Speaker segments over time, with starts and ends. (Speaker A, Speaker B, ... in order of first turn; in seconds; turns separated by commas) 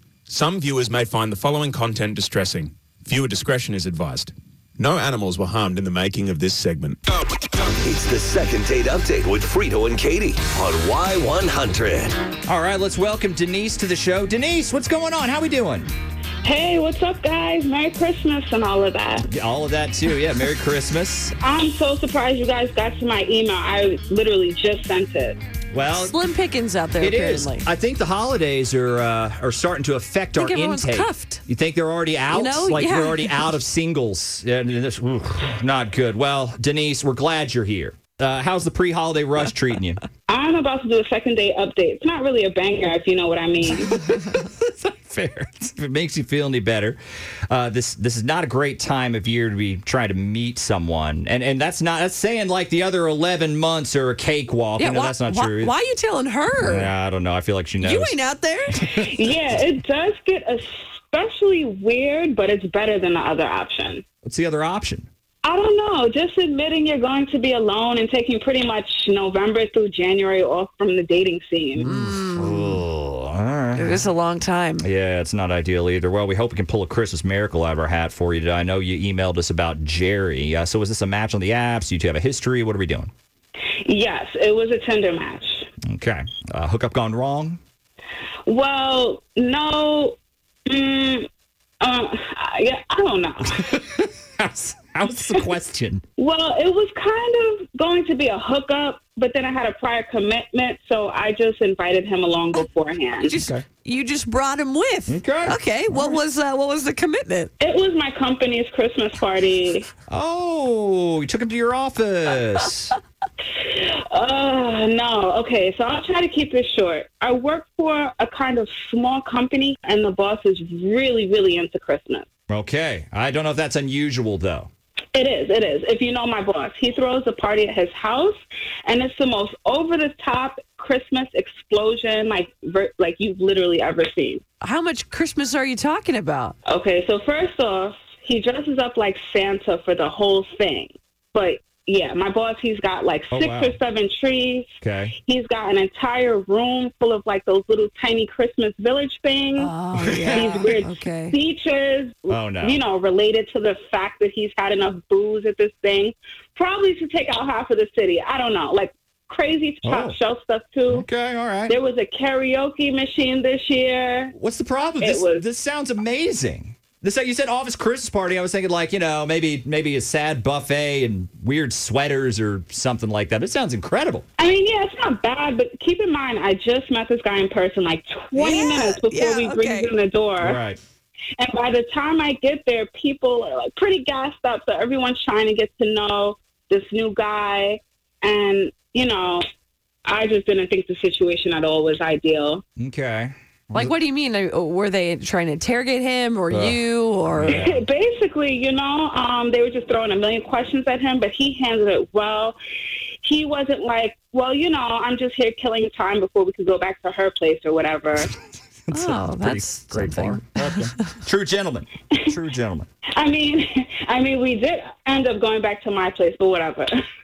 Speaker A: 0.3-7.0, Speaker B: 7.8-12.2, Speaker C: 12.4-15.9, Speaker D: 16.4-19.3, Speaker C: 19.2-21.3, Speaker D: 21.4-25.4, Speaker C: 25.7-26.2, Speaker E: 25.9-27.6, Speaker C: 27.0-40.0, Speaker E: 30.4-31.4, Speaker E: 32.3-33.4, Speaker D: 40.3-43.9, Speaker C: 43.8-47.0, Speaker C: 47.5-55.7, Speaker E: 54.8-56.9, Speaker C: 56.6-58.2, Speaker E: 57.8-58.8, Speaker C: 58.8-59.1, Speaker D: 58.9-64.0, Speaker C: 64.2-65.1, Speaker D: 65.4-71.9, Speaker E: 71.8-72.8, Speaker C: 71.9-74.1, Speaker E: 73.8-74.8, Speaker C: 74.8-83.1, Speaker D: 83.8-85.7, Speaker C: 85.8-87.6, Speaker D: 88.5-90.2, Speaker D: 90.7-91.3, Speaker D: 91.8-93.6, Speaker C: 93.5-96.0, Speaker D: 96.2-103.3, Speaker E: 103.2-107.5, Speaker C: 103.3-103.6, Speaker C: 105.1-106.2, Speaker D: 107.6-109.9, Speaker C: 110.1-113.0, Speaker D: 113.5-122.2, Speaker C: 122.5-124.7, Speaker D: 125.1-134.4, Speaker E: 134.6-136.5, Speaker D: 136.7-149.7, Speaker C: 143.3-143.8, Speaker C: 144.8-145.2, Speaker E: 149.6-151.3, Speaker C: 150.0-150.6, Speaker D: 150.3-161.1, Speaker C: 152.3-152.8, Speaker C: 159.8-160.2, Speaker C: 160.9-161.8, Speaker D: 161.7-164.3, Speaker C: 164.3-174.2, Speaker D: 165.0-165.5, Speaker D: 174.4-180.6, Speaker E: 178.3-179.9, Speaker C: 180.4-180.8, Speaker D: 181.4-189.4, Speaker D: 190.0-192.6, Speaker C: 192.8-193.9, Speaker E: 193.7-197.6, Speaker C: 196.5-196.8, Speaker C: 197.3-197.8, Speaker D: 197.4-202.6, Speaker D: 203.2-208.3, Speaker C: 208.9-212.9, Speaker E: 208.9-211.1, Speaker D: 213.1-216.9